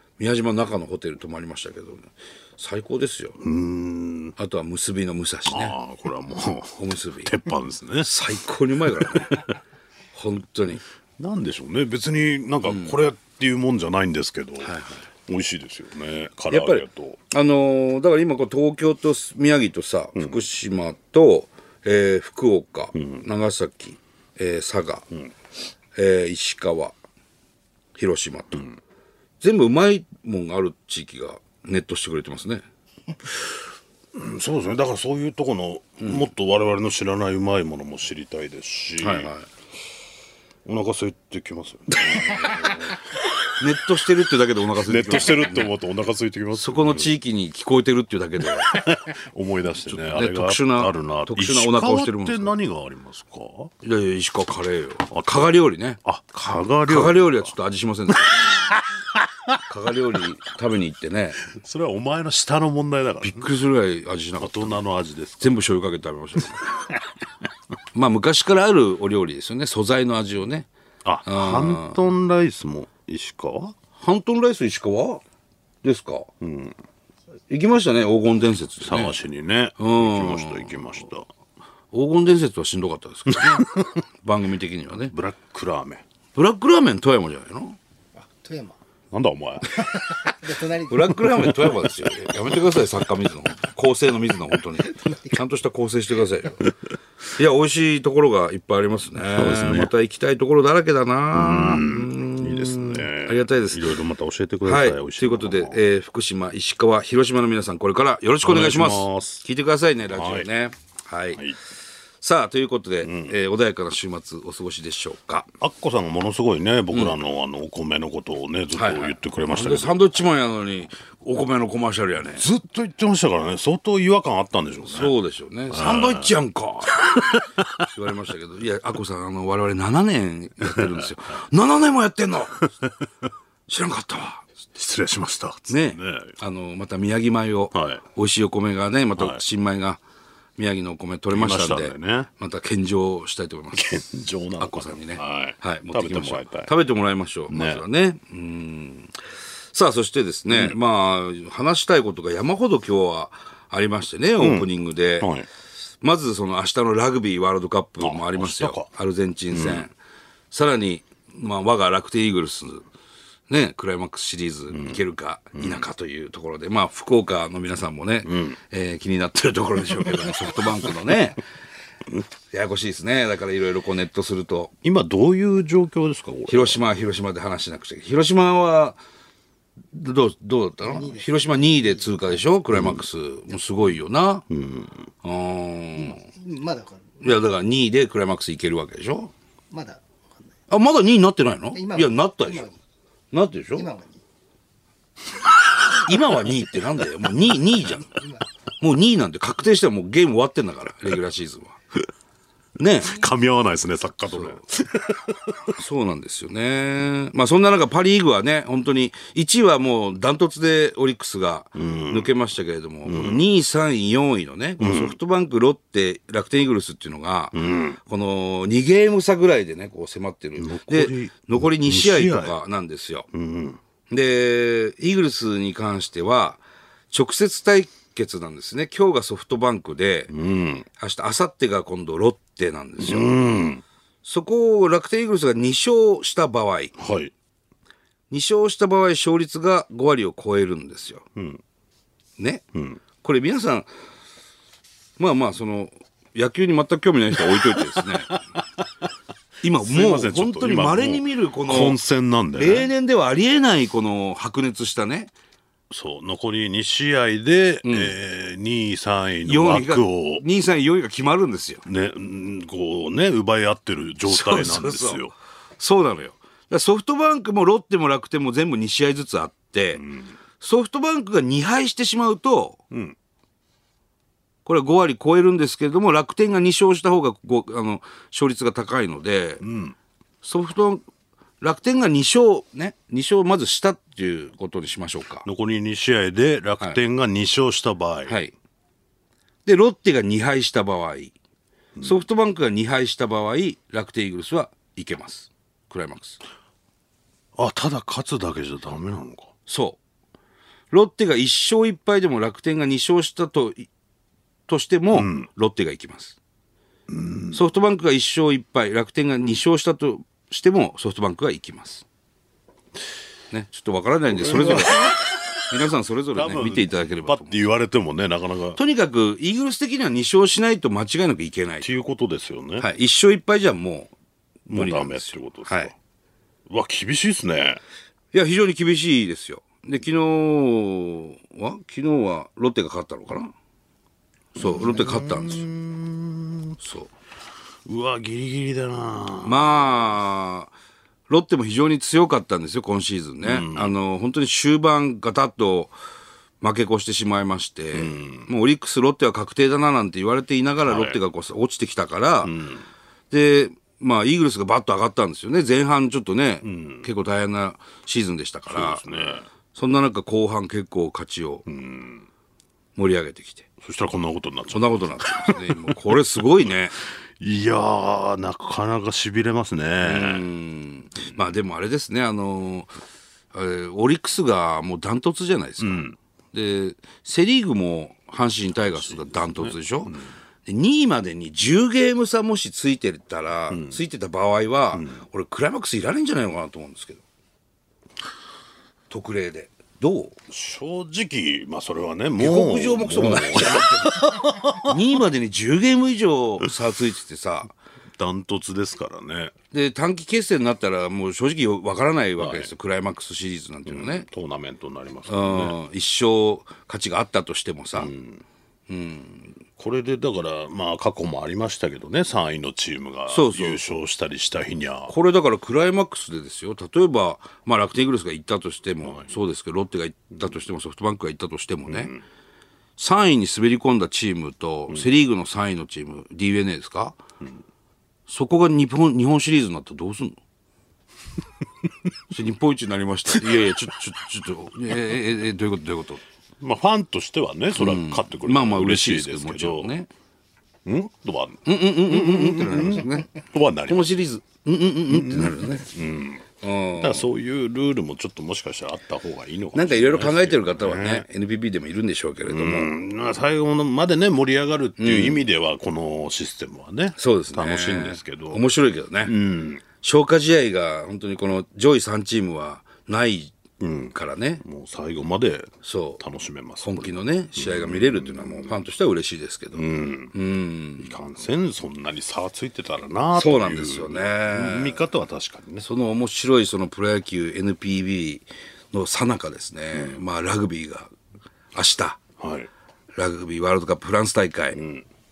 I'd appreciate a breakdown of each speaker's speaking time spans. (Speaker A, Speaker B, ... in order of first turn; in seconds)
Speaker A: 0.2-3.4, 4.4-5.8, 6.8-7.3, 8.0-9.5, 10.1-10.8, 12.7-12.9, 14.6-15.0, 16.5-25.1, 25.9-26.9, 27.9-28.7, 29.4-32.6, 39.0-39.5, 42.0-42.8, 43.6-45.7, 46.5-48.9, 49.9-52.5, 53.8-56.0, 56.8-58.6, 59.7-61.4, 63.2-64.8, 65.4-66.7, 67.9-70.7, 71.2-72.0, 74.0-75.2, 75.8-76.3, 77.5-79.2, 79.8-80.9, 81.9-83.7, 84.2-85.1, 86.3-87.8, 90.9-96.6, 97.3-103.9, 104.6-111.4, 112.2-115.5, 116.9-117.2, 118.7-122.5, 124.9-132.6, 133.7-134.4, 135.7-140.0, 140.6-143.9, 144.6-149.1, 149.7-155.3, 156.0-159.9, 160.5-162.9, 163.5-171.4, 172.5-174.7, 176.5-179.0, 179.9-184.4, 185.2-186.2, 187.2-189.3, 190.7-192.7, 193.3-193.9, 196.1-198.1, 198.8-201.8, 202.8-203.2, 204.3-204.6, 205.8-223.3, 224.1-226.6, 227.1-230.3, 230.9-233.4, 234.2-236.9, 238.3-241.2, 242.4-242.6, 243.2-243.9, 245.2-248.4, 249.6-252.0, 252.6-255.3, 257.8-258.1, 259.4-261.8, 264.3-265.2, 265.8-270.1, 270.6-272.8, 274.6-279.6, 280.4-281.0, 281.6-285.5, 288.3-288.5, 289.6-291.3, 292.0-296.4, 299.7-300.0, 300.9-303.9, 304.7-306.4, 307.5-312.1, 313.5-317.6, 318.8-321.9, 322.8-324.1, 324.7-325.9, 328.3-333.5, 334.5-335.6, 336.8-337.1, 339.4-340.7, 341.3-345.9, 346.6-352.5, 353.3-359.1, 359.7-361.6, 363.0-363.7, 364.7-367.0, 370.0-373.0, 373.5-387.2, 389.1-390.4, 392.4-394.3, 394.8-397.7, 399.7-404.3, 405.3-408.1, 408.9-409.6, 413.3-413.9, 415.1-422.1, 423.0-427.2, 428.3-430.4, 432.3-436.2, 437.8-440.1, 441.6-443.3, 443.9-445.9, 446.6-447.3, 449.7-452.9, 455.0-455.4, 457.2-459.4, 460.0-463.6, 464.1-464.6, 465.8-466.2, 466.8-471.1, 473.4-475.0, 475.8-481.1, 481.7-482.2, 483.1-484.8
Speaker B: 3.4-4.3, 5.5-8.1, 8.9-9.5, 11.2-17.2, 20.2-20.4, 22.9-23.2, 34.1-39.3, 40.6-43.2, 44.8-47.1, 48.6-53.7, 55.1-55.5, 56.0-57.5, 58.3-59.6, 61.4-63.5, 64.4-65.6, 71.0-73.8, 76.4-76.8, 78.8-81.3, 83.3-84.0, 85.1-86.0, 89.1-90.0, 91.5-92.1, 99.2-99.9, 101.3-105.8, 108.4-109.4, 110.1-110.5, 113.0-113.4, 115.6-120.0, 122.4-125.1, 125.7-126.3, 127.0-127.8, 130.6-131.1, 132.6-133.0, 134.8-136.4, 137.7-138.0, 139.2-139.4, 141.3-142.3, 143.7-146.7, 147.5-147.8, 150.5-150.8, 154.4-155.5, 158.0-158.9, 159.5-159.9, 164.7-165.0, 165.6-165.9, 168.2-168.6, 174.8-176.8, 182.7-183.1, 184.5-185.0, 203.0-205.7, 211.8-212.3, 213.1-213.5, 214.8-215.2, 217.5-218.0, 220.6-222.6, 223.3-223.8, 230.3-230.9, 233.0-233.8, 237.0-237.3, 241.3-241.6, 242.7-243.0, 247.4-248.8, 249.7-252.9, 255.9-260.4, 261.8-265.3, 269.9-270.3, 272.9-273.1, 279.6-279.9, 285.4-288.3, 291.9-292.2, 297.6-299.5, 305.1-305.5, 307.1-307.6, 314.3-315.8, 316.3-318.8, 321.8-322.9, 324.7-325.9, 326.7-327.8, 334.6-336.8, 337.9-339.9, 343.4-344.0, 347.9-348.5, 350.8-351.2, 352.4-352.9, 356.6-357.1, 358.7-359.5, 361.6-362.3, 363.8-366.1, 367.4-370.5, 375.8-376.2, 378.8-380.3, 383.7-384.0, 384.9-385.2, 390.5-395.0, 398.2-399.5, 402.4-402.7, 403.9-405.8, 407.9-408.4, 409.8-415.1, 419.0-419.3, 421.9-422.2, 436.6-439.9, 440.9-444.2, 445.1-446.4, 447.0-451.2, 452.5-458.6, 459.2-459.8, 463.8-468.8, 469.7-470.3, 471.0-475.9, 479.9-480.2, 482.4-482.7, 484.7-485.1
Speaker C: 88.2-88.8, 89.9-91.6, 180.8-182.4, 185.9-187.4, 189.7-190.3, 191.7-192.8, 193.8-194.2, 197.9-198.4